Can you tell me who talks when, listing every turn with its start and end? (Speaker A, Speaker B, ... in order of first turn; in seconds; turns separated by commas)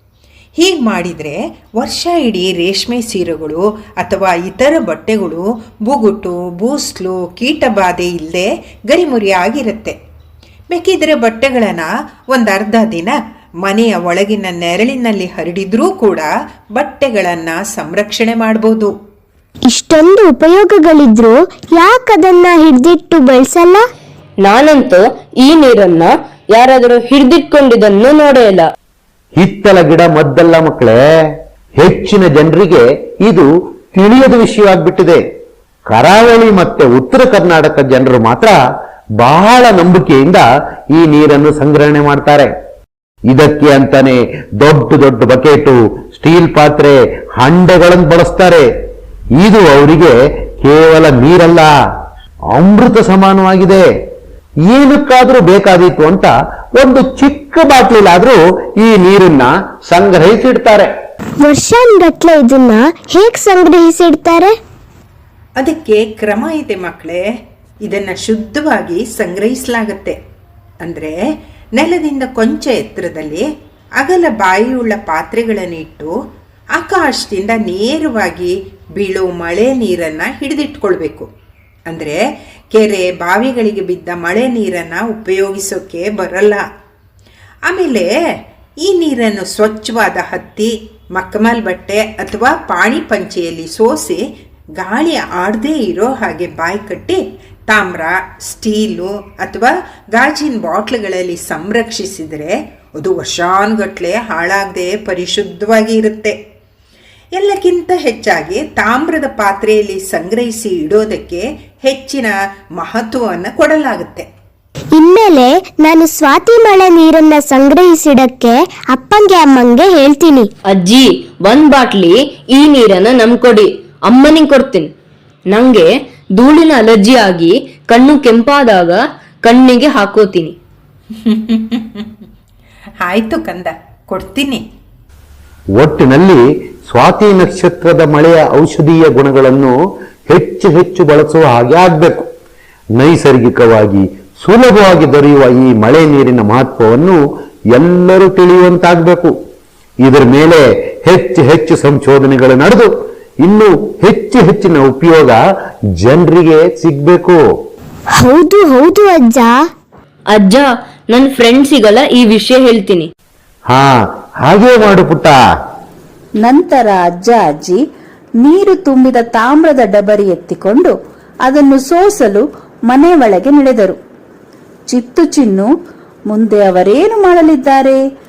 Speaker A: 0.6-9.9, Speaker A: 10.7-18.9, Speaker B: 19.7-23.9, Speaker C: 24.4-28.7, Speaker D: 29.4-30.9, Speaker D: 31.8-35.2, Speaker D: 35.9-38.6, Speaker D: 39.2-42.5, Speaker D: 43.3-48.7, Speaker D: 49.4-51.7, Speaker D: 52.5-53.9, Speaker D: 54.7-60.9, Speaker B: 61.4-64.5, Speaker A: 65.6-67.2, Speaker A: 67.8-70.2, Speaker A: 70.8-71.2, Speaker A: 71.8-73.5, Speaker A: 74.0-76.1, Speaker A: 76.8-81.3, Speaker A: 81.9-82.2, Speaker A: 82.7-86.6, Speaker A: 87.7-88.1, Speaker A: 88.8-94.2, Speaker A: 94.8-106.3, Speaker A: 107.3-114.3, Speaker B: 115.0-120.5, Speaker C: 120.7-124.9, Speaker C: 125.5-130.5, Speaker A: 131.2-132.1, Speaker A: 133.0-134.6, Speaker D: 135.8-139.8, Speaker D: 140.3-142.2, Speaker D: 143.0-147.2, Speaker D: 147.7-149.3, Speaker D: 150.0-152.9, Speaker D: 153.4-155.4, Speaker D: 156.0-157.4, Speaker B: 158.2-159.7, Speaker C: 160.3-163.1, Speaker D: 163.7-165.4, Speaker E: 166.4-167.8, Speaker E: 168.4-170.9, Speaker E: 171.4-174.0, Speaker E: 174.9-175.7, Speaker E: 176.3-178.0